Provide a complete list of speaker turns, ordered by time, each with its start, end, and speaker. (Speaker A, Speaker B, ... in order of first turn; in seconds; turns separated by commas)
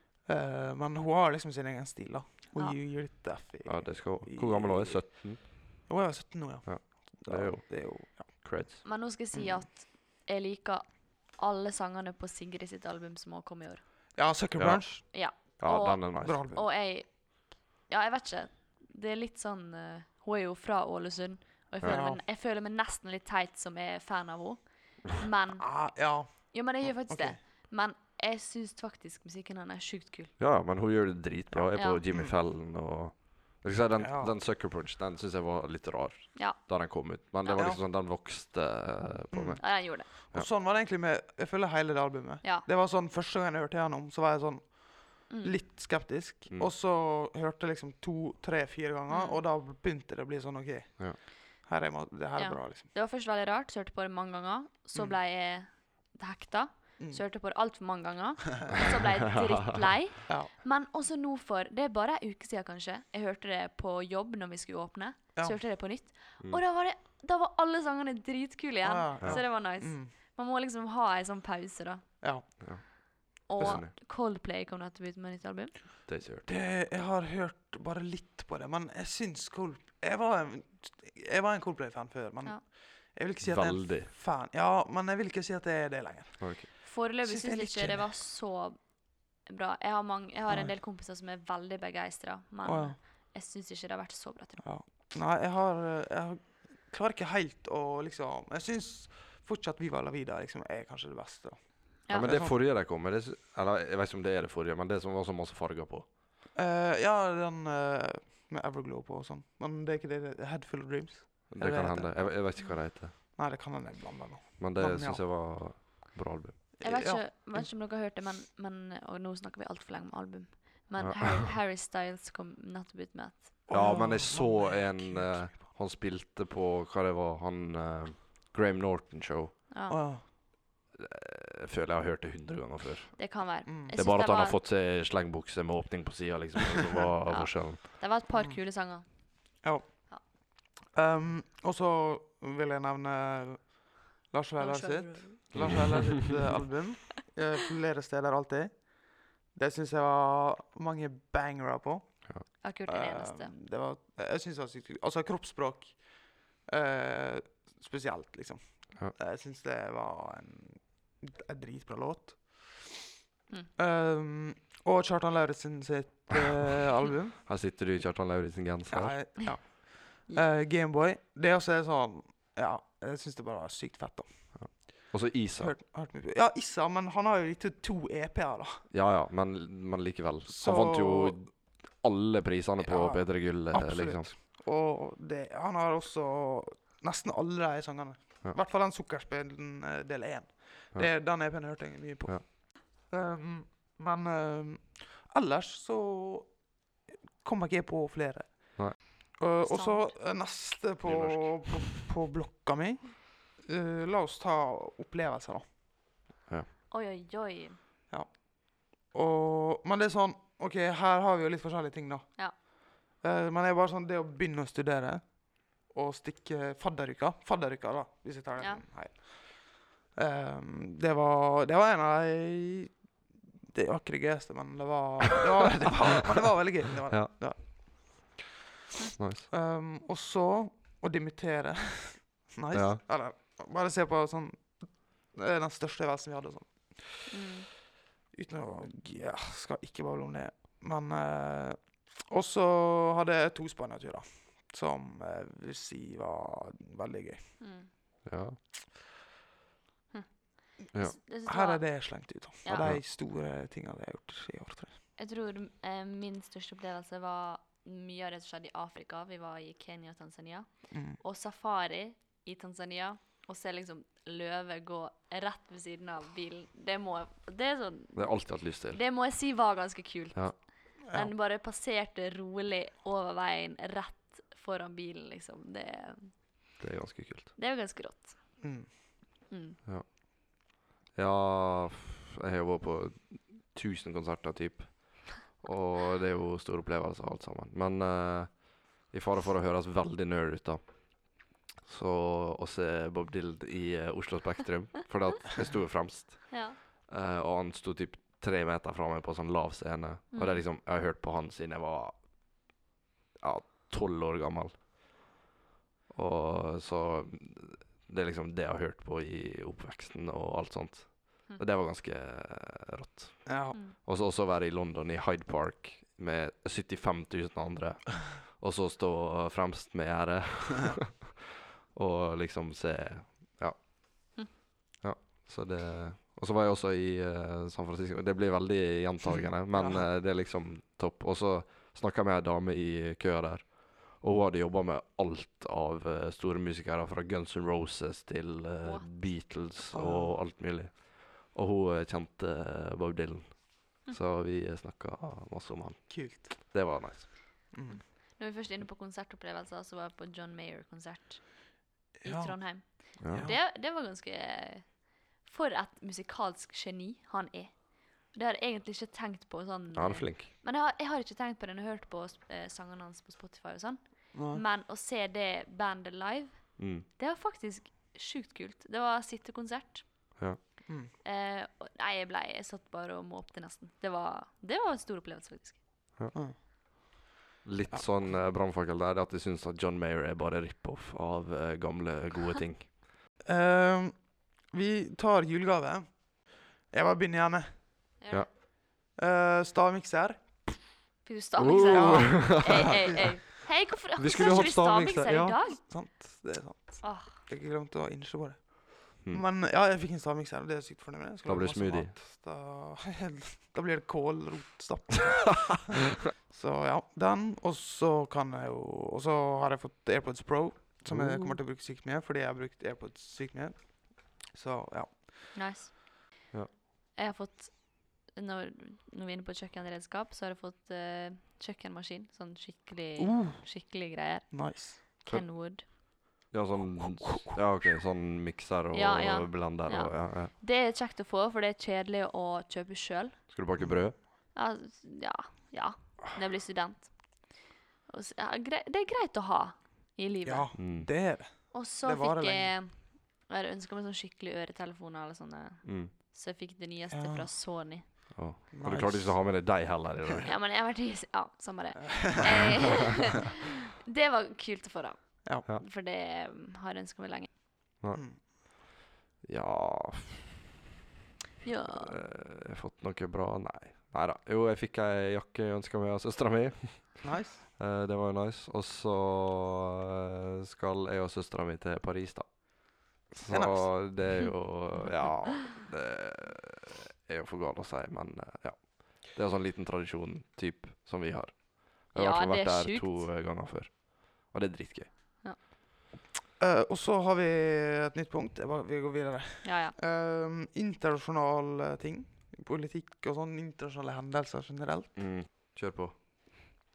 Speaker A: 0.2-8.7, Speaker B: 3.6-5.8, Speaker B: 6.7-8.8, Speaker C: 8.8-14.1, Speaker A: 9.3-9.6, Speaker A: 14.2-15.1, Speaker B: 14.6-16.4, Speaker C: 15.1-30.3, Speaker A: 16.2-16.6, Speaker A: 21.9-22.2, Speaker A: 25.6-27.4, Speaker B: 30.4-40.5, Speaker A: 31.5-32.3, Speaker C: 31.8-32.0, Speaker A: 34.0-34.3, Speaker C: 37.4-37.7, Speaker A: 39.3-52.9, Speaker C: 39.6-40.1, Speaker C: 45.3-45.6, Speaker C: 49.1-49.4, Speaker C: 52.4-72.0, Speaker A: 68.8-70.1, Speaker B: 72.6-73.9, Speaker C: 73.5-75.8, Speaker B: 76.1-76.5, Speaker A: 76.5-88.1, Speaker B: 83.4-84.1, Speaker B: 86.4-86.7, Speaker C: 86.8-94.6, Speaker A: 92.6-93.0, Speaker A: 94.6-102.5, Speaker B: 102.1-106.1, Speaker A: 106.5-112.6, Speaker B: 111.5-113.2, Speaker A: 113.3-115.2, Speaker B: 114.6-116.7, Speaker A: 116.8-117.7, Speaker C: 116.8-123.6, Speaker B: 121.0-121.4, Speaker A: 123.7-125.6, Speaker B: 123.7-129.6, Speaker C: 129.7-130.0, Speaker A: 129.9-130.2, Speaker B: 130.9-137.8, Speaker C: 133.2-134.6, Speaker A: 133.7-133.9, Speaker C: 137.3-140.2, Speaker A: 139.6-163.0, Speaker C: 144.6-146.5, Speaker B: 145.5-145.9, Speaker C: 152.6-153.5, Speaker A: 163.8-167.4, Speaker B: 167.4-169.2, Speaker A: 168.9-178.8, Speaker B: 174.6-175.8, Speaker B: 178.9-184.3, Speaker A: 180.5-181.4, Speaker A: 182.8-196.8, Speaker A: 197.4-205.7, Speaker C: 199.6-200.1, Speaker B: 201.0-201.7, Speaker C: 206.9-207.8, Speaker A: 208.1-223.0, Speaker A: 223.7-228.4, Speaker B: 229.2-229.5, Speaker A: 229.5-237.3, Speaker B: 232.7-233.0, Speaker C: 237.3-237.7, Speaker A: 238.3-247.5, Speaker C: 247.6-247.9, Speaker B: 248.2-248.6, Speaker C: 250.1-252.9, Speaker A: 251.5-254.9, Speaker C: 255.2-276.4, Speaker A: 260.9-261.2, Speaker B: 268.1-269.0, Speaker A: 271.0-271.3, Speaker B: 276.8-277.5, Speaker C: 277.6-278.6, Speaker A: 278.6-278.9, Speaker C: 279.5-279.8, Speaker B: 280.6-302.3, Speaker C: 296.5-296.8, Speaker C: 300.3-300.6, Speaker B: 303.4-304.8, Speaker B: 306.1-324.4, Speaker A: 313.5-313.8, Speaker B: 325.0-347.6, Speaker A: 329.2-330.1, Speaker C: 338.8-339.1, Speaker A: 339.9-340.3, Speaker A: 346.1-346.6, Speaker A: 347.7-348.0, Speaker C: 348.4-370.4, Speaker A: 352.2-353.6, Speaker B: 353.2-353.5, Speaker B: 359.9-360.5, Speaker A: 364.3-364.6, Speaker B: 366.8-367.1, Speaker C: 371.2-375.8, Speaker B: 377.6-382.9, Speaker A: 377.9-378.2, Speaker A: 383.4-387.8, Speaker C: 388.2-388.5, Speaker A: 389.1-390.9, Speaker C: 391.2-395.8, Speaker B: 391.6-393.1, Speaker A: 391.9-393.3, Speaker B: 394.1-395.6, Speaker A: 395.8-415.5, Speaker C: 397.0-397.4, Speaker B: 401.4-402.1, Speaker B: 411.1-411.6, Speaker C: 415.5-415.9, Speaker C: 417.1-425.9, Speaker A: 423.2-423.7, Speaker A: 424.5-425.1, Speaker B: 426.5-430.5, Speaker A: 426.8-427.6, Speaker C: 428.9-433.4, Speaker B: 433.5-434.2, Speaker A: 433.8-434.1, Speaker C: 434.5-437.5, Speaker C: 438.1-440.7, Speaker A: 440.4-442.7, Speaker B: 440.8-441.1, Speaker C: 441.7-448.1, Speaker B: 445.8-446.1, Speaker A: 447.1-447.5, Speaker B: 448.3-450.5, Speaker A: 448.7-449.9, Speaker C: 450.5-457.5, Speaker A: 452.1-452.4, Speaker A: 458.1-458.4, Speaker B: 459.4-460.6, Speaker C: 461.6-462.2, Speaker B: 461.9-485.1, Speaker A: 467.2-467.6, Speaker A: 473.5-474.2, Speaker C: 482.1-483.3, Speaker A: 486.6-495.1, Speaker C: 489.6-489.9, Speaker B: 495.1-496.1